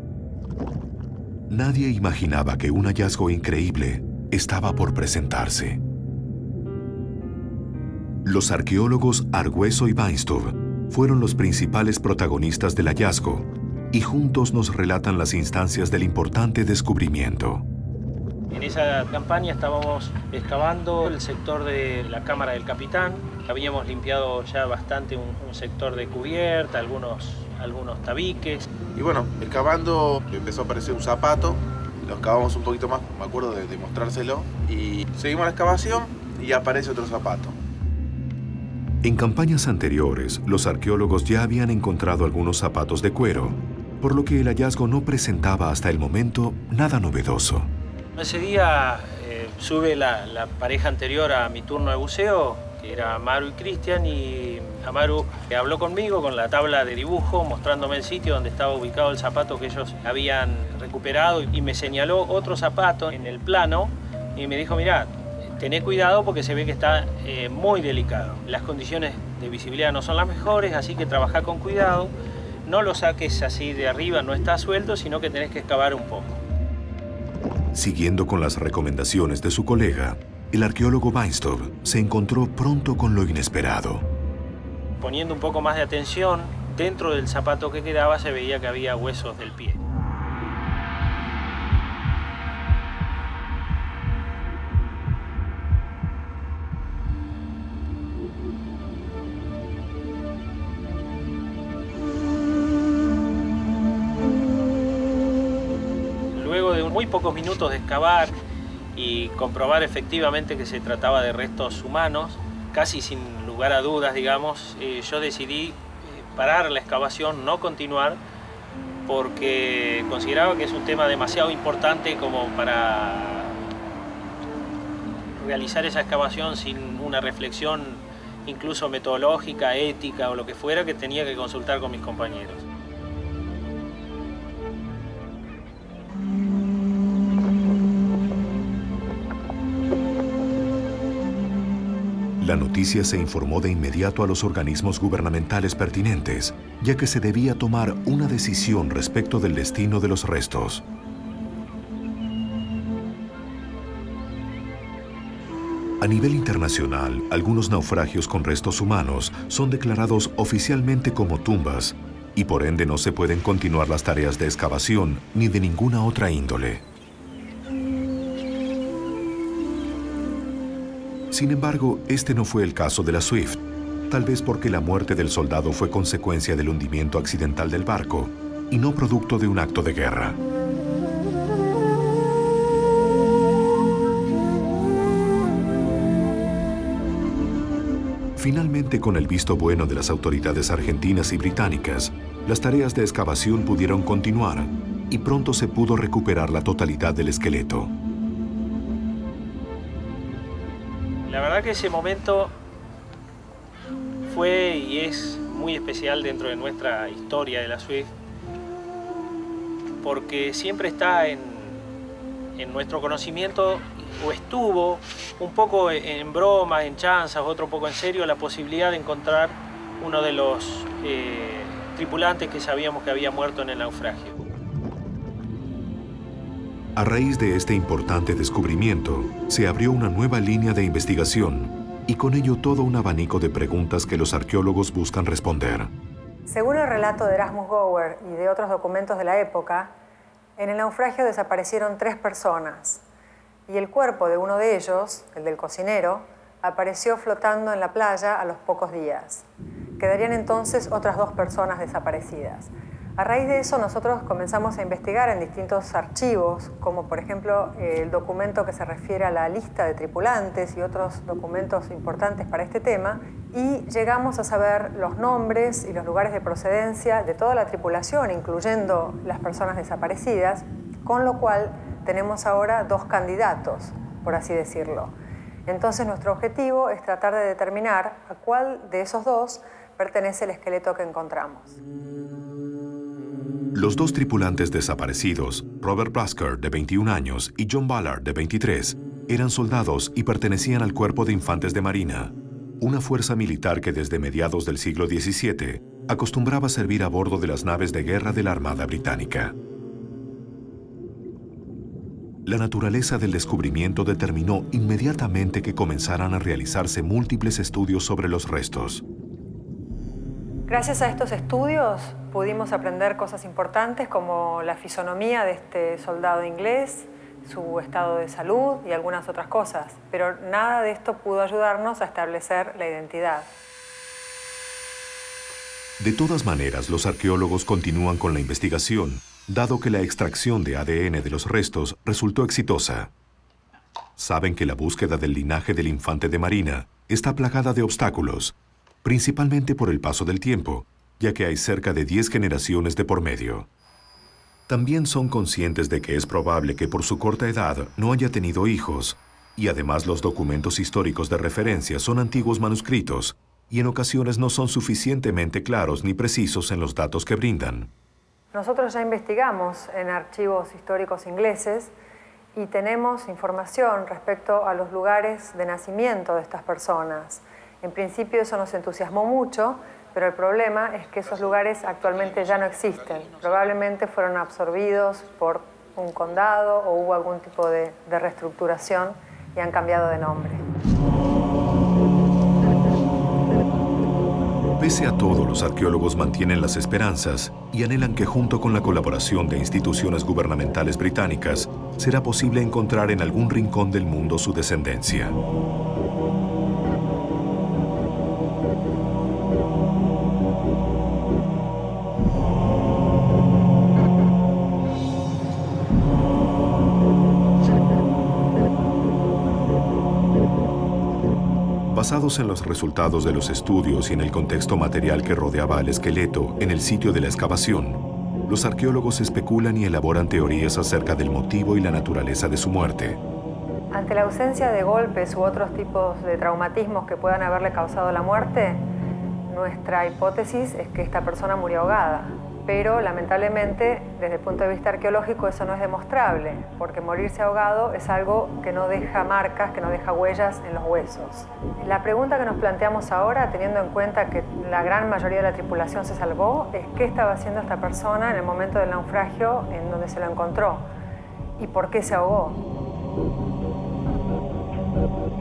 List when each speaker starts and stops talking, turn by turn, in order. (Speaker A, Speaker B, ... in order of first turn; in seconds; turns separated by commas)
Speaker A: 1.5-5.8, Speaker A: 8.2-17.6, Speaker B: 18.5-28.6, Speaker C: 28.9-37.6, Speaker A: 39.0-47.7, Speaker B: 48.2-72.1, Speaker B: 72.7-76.4, Speaker A: 77.7-84.0, Speaker B: 85.0-89.8, Speaker B: 106.3-108.4, Speaker B: 109.0-118.2, Speaker B: 119.1-123.6, Speaker B: 125.4-132.6, Speaker A: 142.4-150.8, Speaker A: 156.0-166.8, Speaker A: 171.3-180.4, Speaker A: 188.4-197.9, Speaker B: 201.3-202.5, Speaker B: 204.3-208.1, Speaker B: 210.0-211.9, Speaker B: 212.6-224.4, Speaker A: 227.0-235.9, Speaker D: 236.5-239.9, Speaker D: 240.6-243.0, Speaker D: 243.7-249.4, Speaker D: 250.0-275.1, Speaker D: 275.7-281.8, Speaker A: 283.7-299.6, Speaker A: 302.5-309.0, Speaker D: 310.7-323.5, Speaker A: 326.0-333.1, Speaker A: 334.2-343.7, Speaker A: 344.7-357.9, Speaker D: 358.5-361.9, Speaker D: 362.5-380.6, Speaker C: 373.1-373.5, Speaker A: 384.8-395.4, Speaker A: 411.9-423.2, Speaker D: 423.9-428.9, Speaker D: 429.5-450.9, Speaker D: 451.6-452.7